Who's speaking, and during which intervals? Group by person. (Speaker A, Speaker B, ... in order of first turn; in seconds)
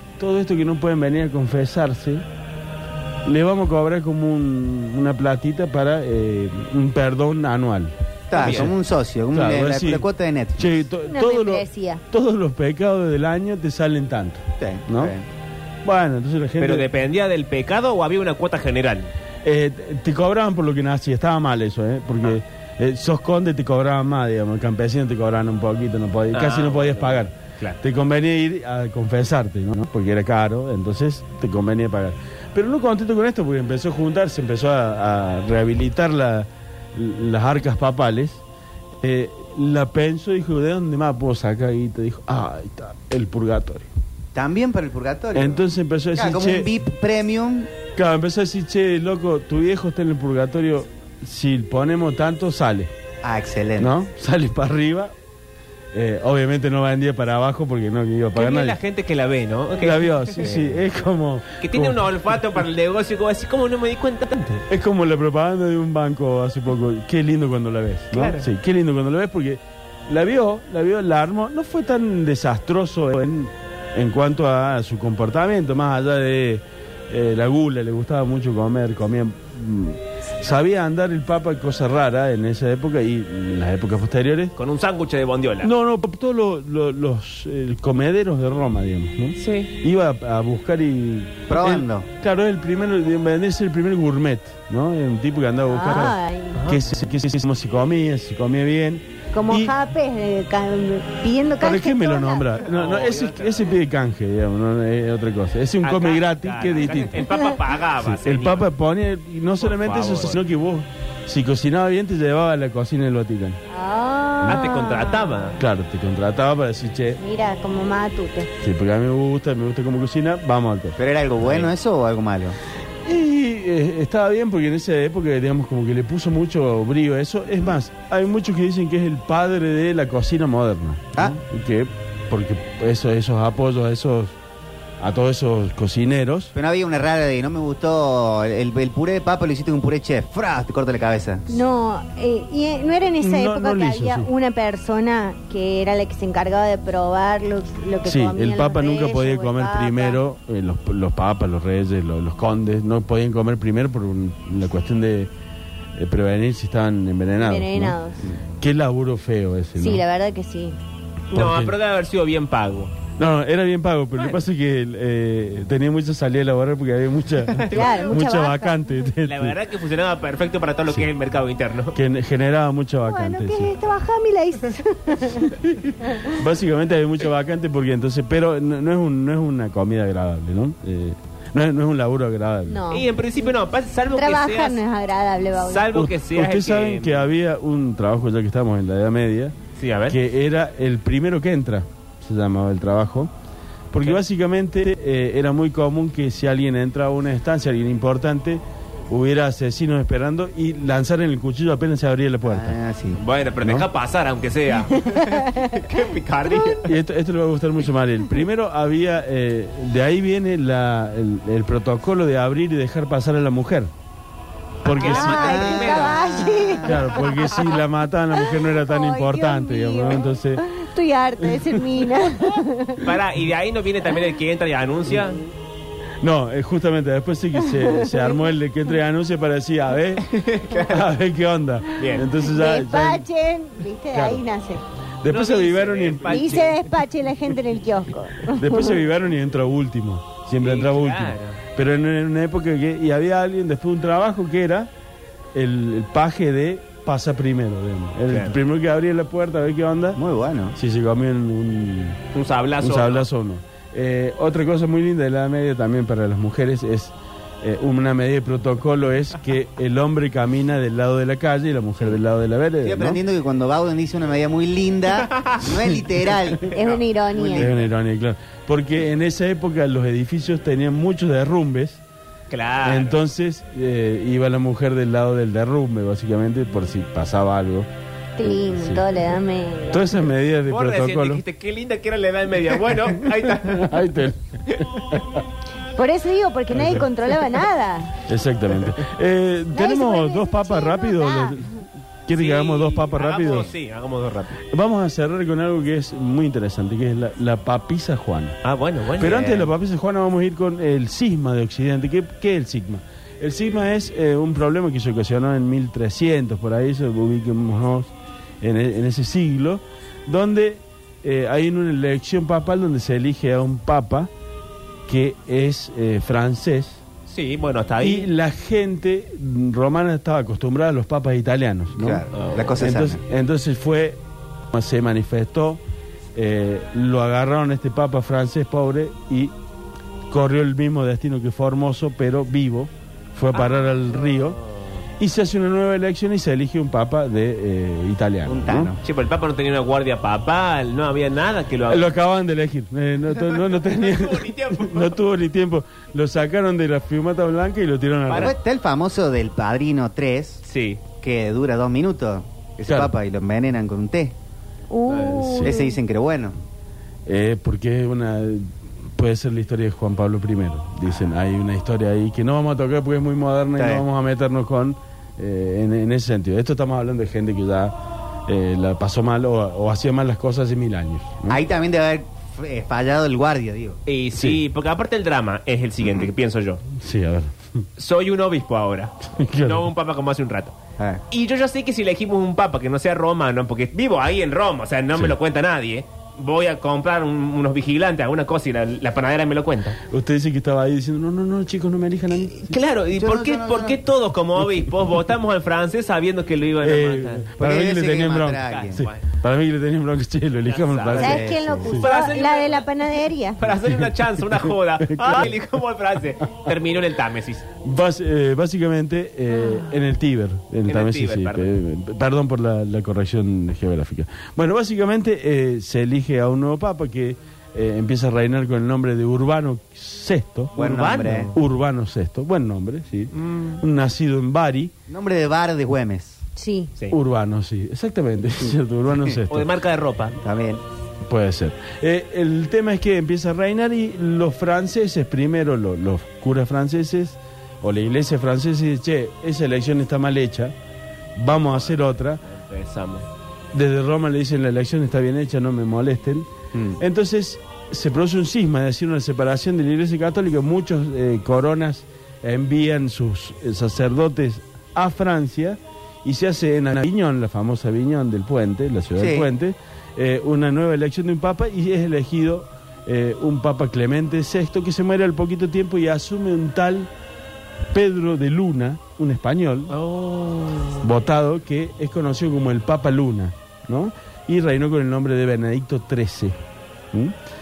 Speaker A: 0.2-2.2, 3.2-8.7, 9.3-10.0, 10.6-15.1, 15.8-16.9, 19.4-38.4, 39.0-43.9, 45.3-46.7, 47.9-52.9, 53.8-55.1, 55.9-58.8, 59.8-62.1, 64.7-84.5, 85.6-99.7, 101.6-107.3, 108.0-113.6, 115.6-117.2, 118.6-121.0, 123.0-134.3, 135.0-136.5, 143.2-144.3, 148.0-155.3, 155.9-158.0, 158.6-160.0, 161.3-161.8, 163.2-169.6, 171.9-173.7, 175.6-182.8, 185.9-189.5, 190.1-193.3, 193.9-202.8, 206.8-213.9, 214.8-215.7, 216.8-220.6, 221.4-222.1, 226.2-233.2, 234.1-234.4, 235.2-236.7, 238.5-244.9, 245.5-250.2, 250.8-252.2, 252.8-263.2, 267.5-272.0, 272.8-277.9, 278.4-279.1, 279.9-281.4, 283.2-285.4, 286.7-287.1, 288.2-293.7, 294.7-298.6, 299.2-314.3, 315.1-317.0, 318.0-322.2, 322.8-325.8, 326.3-329.5, 330.3-334.6, 335.2-338.9, 341.9-348.5, 352.9-353.1, 355.4-355.7, 357.2-371.6, 374.4-374.6, 376.9-377.5, 379.3-379.9, 390.0-392.7, 396.8-402.1, 403.9-405.5, 407.8-420.8, 421.5-424.9, 427.1-429.7, 431.2-440.7, 441.4-442.4, 443.7-467.1, 467.9-469.9, 471.0-476.6
Speaker B: 8.3-10.7, 14.6-15.2, 44.3-45.6, 46.1-47.7, 53.2-53.9, 91.5-92.1, 121.0-122.6, 136.5-141.5, 202.4-203.2, 215.1-217.0, 250.2-250.8, 262.8-266.7, 267.3-267.9, 322.0-323.2, 338.4-339.0, 348.3-350.6, 351.1-354.4, 355.6-356.6, 363.8-364.0, 371.5-374.0, 393.1-394.0, 397.6-399.0, 401.1-402.0, 420.8-421.5, 425.1-426.4, 430.4-430.8, 446.7-447.0, 459.2-459.5
Speaker C: 8.3-8.7, 16.6-19.1, 26.3-27.8, 58.3-60.6, 61.6-64.7, 68.1-68.5, 84.5-85.7, 89.3-89.7, 96.5-96.8, 102.6-103.8, 105.8-108.7, 109.6-110.4, 114.4-115.6, 121.4-121.7, 161.3-162.9, 167.6-168.1, 169.2-172.0, 182.9-184.8, 185.7-187.3, 189.8-190.2, 203.2-206.8, 214.8-216.7, 223.0-225.4, 230.2-231.1, 232.0-232.3, 235.3-236.9, 240.6-241.6, 248.3-248.6, 252.3-253.2, 265.2-265.7, 266.7-267.0, 272.5-273.2, 280.7-284.0, 292.3-294.6, 298.6-299.7, 317.3-318.3, 322.3-322.8, 333.5-334.5, 339.0-342.1, 343.4-345.2, 348.3-348.5, 350.6-351.0, 355.1-355.6, 374.1-376.8, 378.0-380.7, 381.3-390.0, 392.6-397.5, 398.6-399.2, 400.6-402.9, 403.6-407.6, 410.9-411.7, 420.8-421.6, 423.3-423.8, 429.5-430.4, 441.6-443.3, 469.9-471.1
Speaker D: 11.1-12.0, 95.7-96.6, 99.3-102.5, 113.7-115.3, 117.2-118.5, 141.5-150.2, 157.4-158.2, 159.8-160.8, 167.7-168.8, 173.0-175.6, 182.7-183.1, 184.1-185.9, 205.0-205.8, 214.9-217.6, 218.3-223.1, 227.7-228.4, 232.3-234.8, 236.3-239.0, 266.6-267.7, 278.4-280.1, 285.9-288.2, 289.7-291.6, 354.9-356.0, 401.2-403.6, 426.6-426.9